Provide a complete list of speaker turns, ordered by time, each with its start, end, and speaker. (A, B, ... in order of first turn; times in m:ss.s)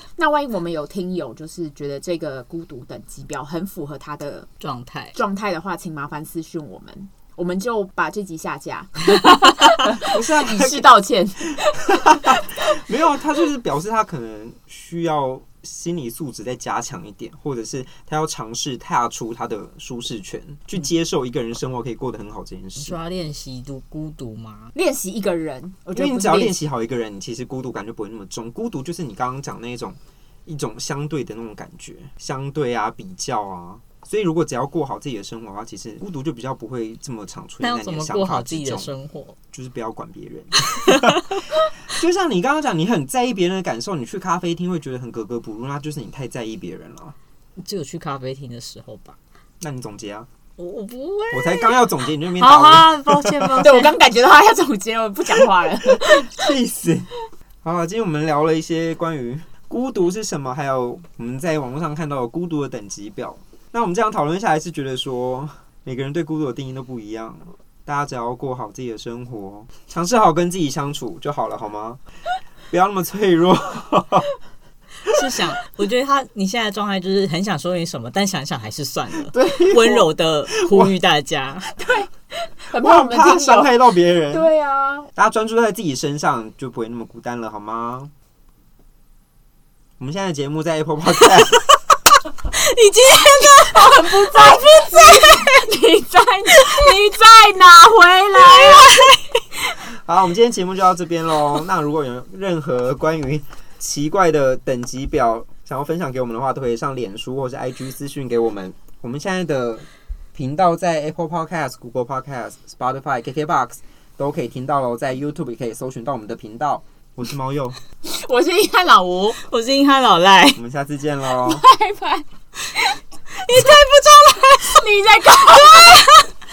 0:00.2-0:04.5 A
0:04.6-0:05.2 B
0:05.1-0:12.6 A
0:10.0-0:10.9 C
0:11.6-0:23.0 C
0:22.8-0:24.7 B
0:24.7-0:26.6 A
0:26.0-0:38.9 C
0:37.6-0:39.4 B
0:39.5-0:47.2 C
0:40.6-0:41.6 B
0:47.6-0:49.2 B
0:49.6-0:50.3 C
0:50.6-0:53.9 B
0:51.3-0:53.7 C
0:53.6-0:56.5 A
0:55.8-0:57.1 C
0:57.6-1:12.0 C
1:12.7-1:14.3 C
1:15.0-1:21.8 B
1:19.2-1:21.0 C
1:21.8-1:23.8 A
1:22.8-1:24.5 C
1:24.3-1:25.1 A
1:25.2-1:28.1 C
1:30.0-1:31.7 C
1:32.5-1:35.6 B
1:33.6-1:39.0 A
1:38.6-1:39.2 B
1:39.8-1:57.8 C
1:58.0-1:59.4 A
1:59.3-2:00.6 B
2:00.6-2:01.6 C
2:01.4-2:02.3 A
2:03.3-2:06.3 B
2:04.6-2:06.1 A